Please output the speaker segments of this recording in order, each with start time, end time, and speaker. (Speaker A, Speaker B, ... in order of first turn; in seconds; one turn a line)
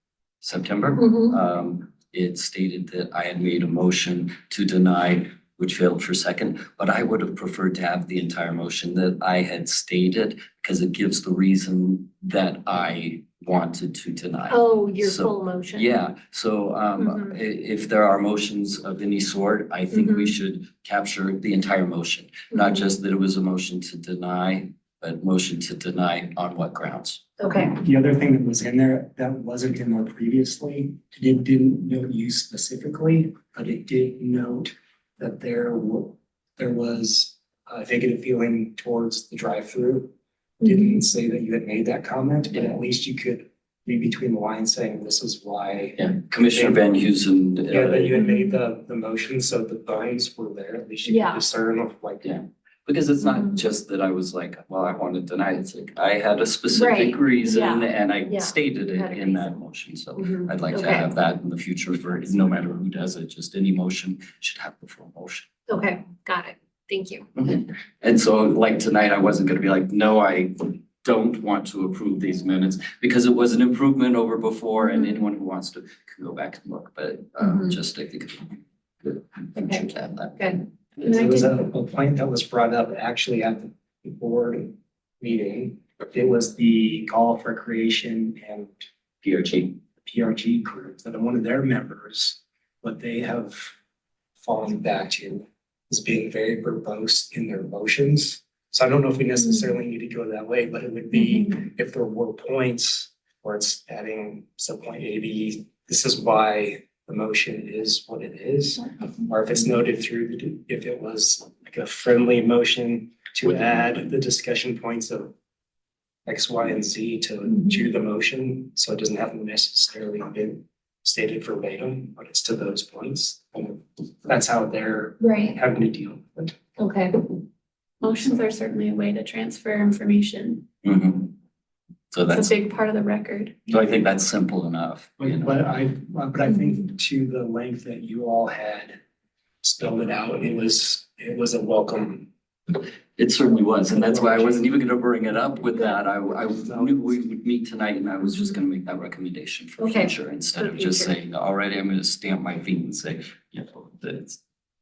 Speaker A: 0.4-27.2
Speaker B: 1.0-1.4
Speaker B: 14.5-15.9
Speaker B: 17.0-17.3
Speaker B: 19.9-20.4
Speaker B: 22.5-22.9
Speaker B: 27.4-27.8
Speaker C: 27.6-46.8
Speaker B: 40.6-41.0
Speaker A: 46.0-48.2
Speaker C: 47.7-52.3
Speaker B: 51.0-51.5
Speaker A: 52.2-65.5
Speaker B: 53.3-53.6
Speaker B: 56.7-59.6
Speaker B: 60.2-61.1
Speaker B: 65.7-67.3
Speaker A: 67.3-81.0
Speaker B: 77.4-77.8
Speaker B: 79.5-80.7
Speaker C: 81.0-88.9
Speaker D: 81.0-81.4
Speaker A: 89.2-89.8
Speaker C: 90.0-93.7
Speaker C: 94.4-115.3
Speaker C: 116.2-126.5
Speaker B: 117.5-117.8
Speaker B: 125.2-125.5
Speaker B: 126.8-127.3
Speaker D: 128.0-130.7
Speaker A: 130.8-131.3
Speaker A: 132.1-132.5
Speaker D: 132.3-133.5
Speaker A: 133.7-135.6
Speaker C: 135.2-139.0
Speaker C: 139.6-142.3
Speaker A: 142.7-154.4
Speaker C: 143.9-144.6
Speaker C: 146.7-146.9
Speaker B: 149.8-151.1